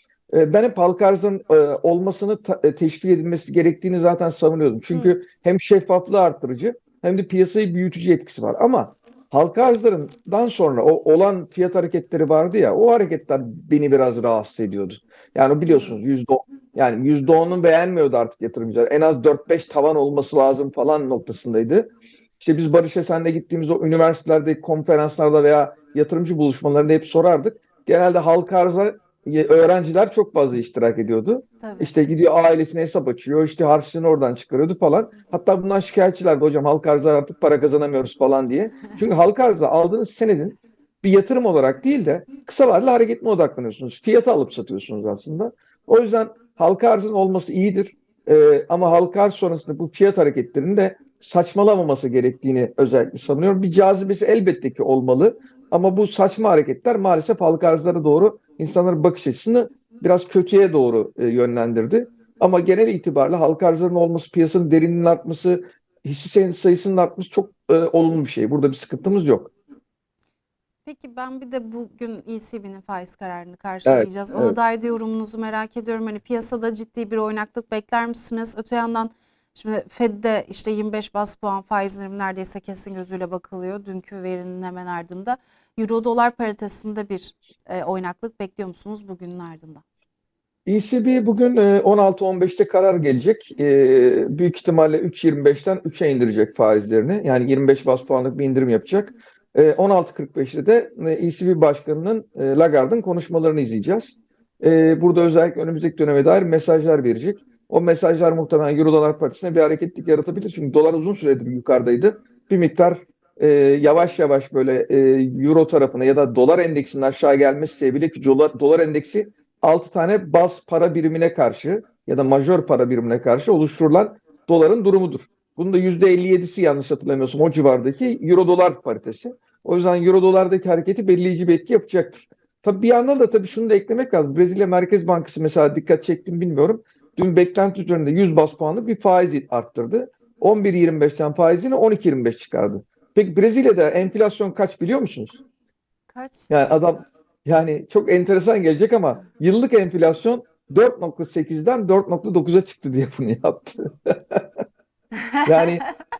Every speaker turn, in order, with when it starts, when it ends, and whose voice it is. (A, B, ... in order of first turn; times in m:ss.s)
0:00.3-1:09.5 A
0:15.7-0:16.0 B
0:31.6-0:31.9 B
1:10.8-1:29.8 B
1:13.8-1:14.6 A
1:30.7-2:25.4 A
2:26.1-2:26.5 B
2:26.5-2:34.5 A
2:35.2-2:35.6 B
2:35.4-2:35.8 A